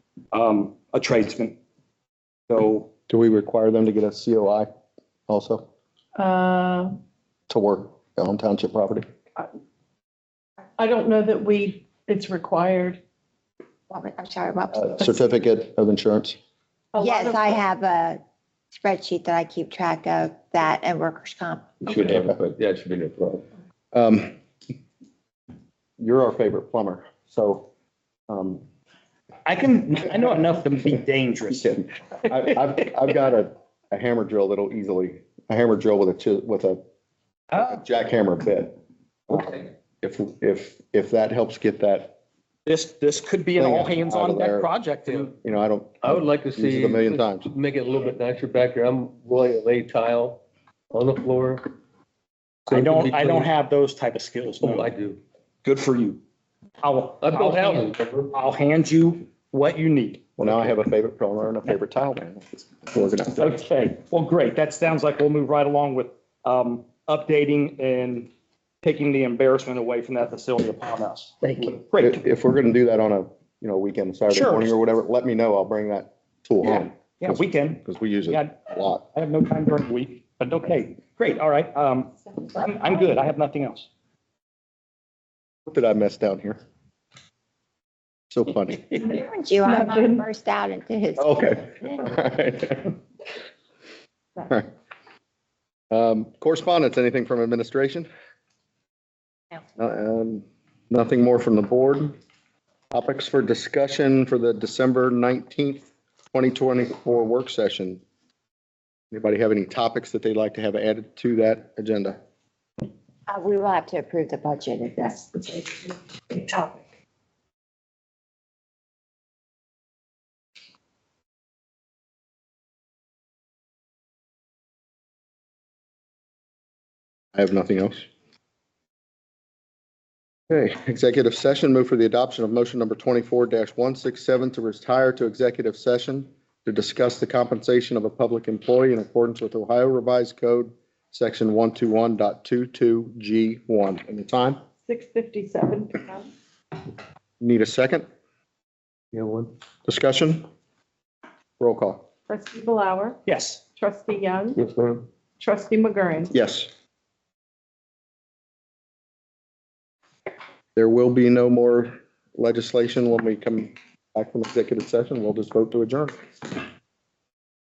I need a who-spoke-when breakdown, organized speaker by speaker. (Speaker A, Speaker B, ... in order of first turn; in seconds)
Speaker A: 0.3-1.6, 2.5-2.9, 29.4-31.7, 42.6-45.3, 52.7-54.9, 55.6-56.2, 56.8-60.7, 63.4-68.3, 68.8-72.2, 74.3-74.7, 76.6-83.9, 153.2-153.6
Speaker B: 3.1-4.7, 5.3-5.7, 7.5-9.1, 14.7-16.4, 21.9-22.2, 23.9-24.3, 26.0-27.7, 28.3-28.6, 31.5-36.8, 37.5-38.8, 39.3-42.2, 43.5-44.7, 45.4-47.5, 60.4-63.6, 71.8-79.0, 85.7-86.6, 88.3-89.1, 91.2-93.0, 95.9-98.1, 99.8-102.2, 102.9-108.0, 109.1-112.2, 127.3-128.0, 130.5-144.6, 147.4-148.1, 149.8-150.4, 151.6-152.0, 156.3-156.7, 160.8-166.6
Speaker C: 6.2-7.0, 10.8-13.0, 16.9-17.6, 89.6-90.2, 144.8-146.3, 152.3-153.2, 153.8-154.6, 155.4-156.3
Speaker D: 13.9-14.9, 17.0-18.2, 18.7-22.0, 89.0-92.0, 113.3-116.8
Speaker E: 21.8-23.4, 45.0-45.3, 46.0-51.7, 52.7-53.5, 54.6-55.2, 57.2-58.3, 149.1-149.5, 154.5-155.1